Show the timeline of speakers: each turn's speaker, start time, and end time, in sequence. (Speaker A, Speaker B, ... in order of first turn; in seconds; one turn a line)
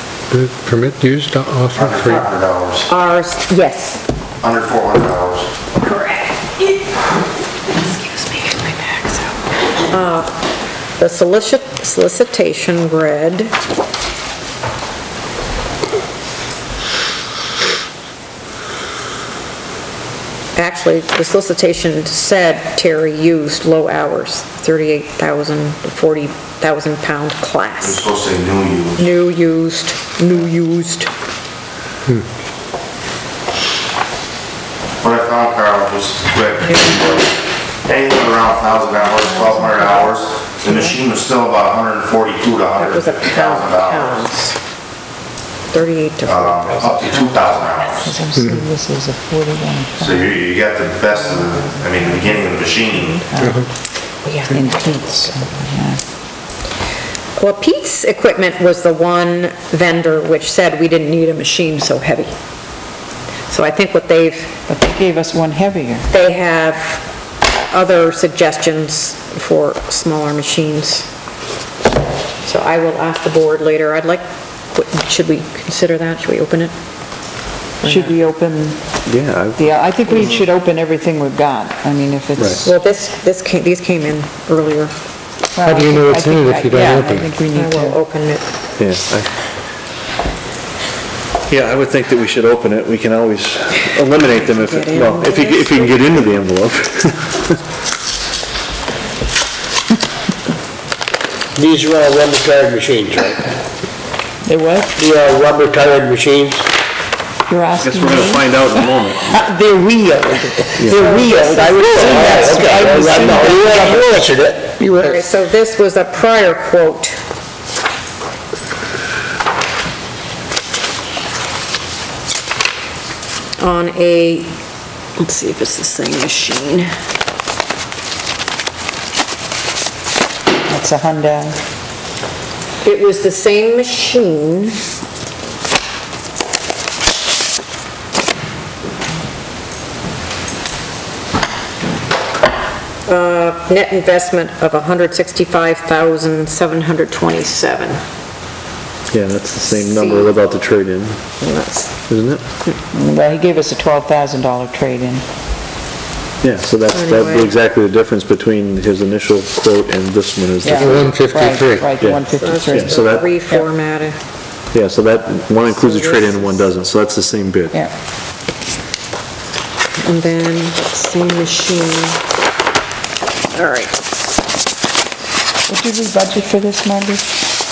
Speaker A: 0.3-2.3
Speaker B: 1.8-2.9
Speaker C: 2.9-4.0
Speaker B: 4.4-5.5
Speaker C: 5.8-6.7
Speaker C: 7.7-10.3
Speaker C: 11.0-13.5
Speaker C: 20.6-28.0
Speaker B: 27.8-29.1
Speaker C: 29.0-31.1
Speaker B: 35.0-37.3
Speaker C: 36.6-37.0
Speaker B: 37.8-44.3
Speaker C: 40.6-41.0
Speaker C: 42.8-44.6
Speaker C: 45.7-48.1
Speaker B: 46.2-48.2
Speaker D: 48.0-50.4
Speaker B: 50.0-53.3
Speaker C: 53.0-53.2
Speaker D: 53.3-53.6
Speaker C: 54.2-54.8
Speaker D: 54.5-56.0
Speaker C: 57.4-62.3
Speaker C: 63.5-64.5
Speaker D: 64.7-66.1
Speaker C: 66.1-67.0
Speaker C: 67.7-71.1
Speaker C: 72.4-76.7
Speaker C: 77.8-78.2
Speaker D: 77.8-79.0
Speaker E: 79.1-79.7
Speaker D: 79.6-82.7
Speaker C: 80.1-80.4
Speaker E: 82.4-82.6
Speaker C: 82.5-85.0
Speaker D: 85.5-88.0
Speaker A: 85.6-87.3
Speaker C: 87.5-88.4
Speaker E: 88.8-89.3
Speaker E: 91.5-97.6
Speaker C: 94.1-96.2
Speaker F: 101.6-103.5
Speaker D: 104.4-104.9
Speaker F: 105.0-106.7
Speaker D: 107.5-108.8
Speaker E: 107.8-109.4
Speaker D: 109.4-114.1
Speaker E: 110.8-111.2
Speaker F: 110.8-115.2
Speaker C: 111.1-114.0
Speaker C: 114.9-117.2
Speaker C: 123.6-124.5
Speaker C: 125.2-126.9
Speaker D: 130.7-131.6
Speaker C: 132.8-134.8
Speaker C: 143.1-148.0
Speaker E: 149.1-151.2
Speaker C: 149.6-150.4
Speaker C: 151.4-151.9
Speaker E: 152.1-152.4
Speaker D: 152.9-155.2
Speaker E: 156.4-161.1
Speaker C: 156.9-157.5
Speaker D: 160.6-163.7
Speaker A: 160.8-161.9
Speaker E: 162.0-163.3
Speaker C: 162.3-164.2
Speaker E: 164.7-167.8
Speaker C: 165.8-166.7
Speaker C: 170.0-172.2
Speaker C: 173.6-174.0
Speaker D: 175.7-177.2